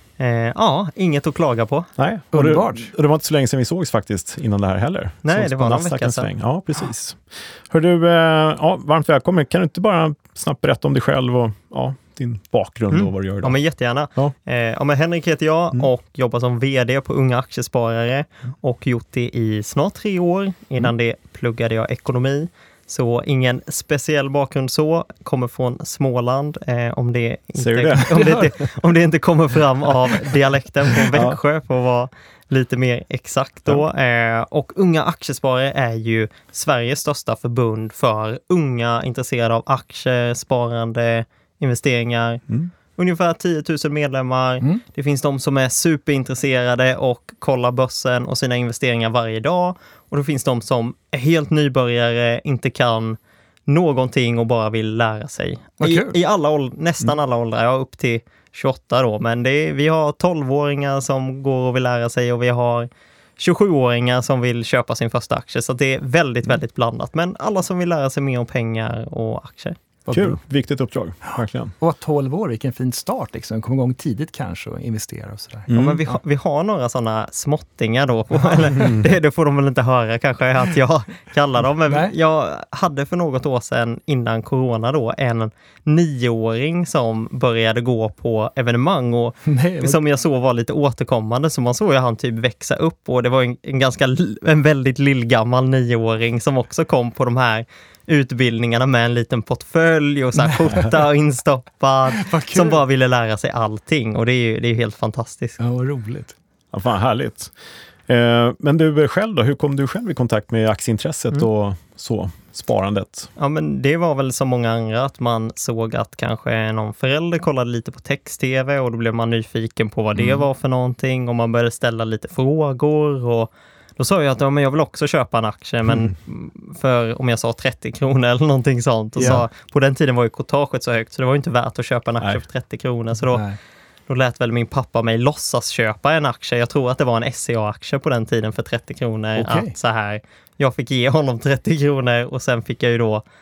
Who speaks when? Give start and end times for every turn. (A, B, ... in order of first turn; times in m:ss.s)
0:00.2-0:01.9 A
0:02.0-0:13.6 B
0:02.3-0:02.9 C
0:05.2-0:06.3 A
0:12.9-1:09.8 A
0:27.6-0:28.4 B
0:31.1-0:31.4 B
0:55.8-0:56.1 C
1:10.0-1:10.4 C
1:10.1-1:11.7 B
1:11.8-1:16.2 C
1:15.7-1:16.0 B
1:15.7-1:45.6 A
1:21.9-1:22.1 C
1:29.4-1:30.0 C
1:40.6-1:40.8 C
1:42.1-1:42.8 C
1:45.6-1:46.3 C
1:46.7-1:47.5 B
1:48.1-1:53.3 B
1:53.4-2:13.4 A
2:00.2-2:00.4 C
2:09.2-2:09.4 C
2:13.2-2:13.6 C
2:14.1-2:23.2 A
2:19.3-2:19.7 C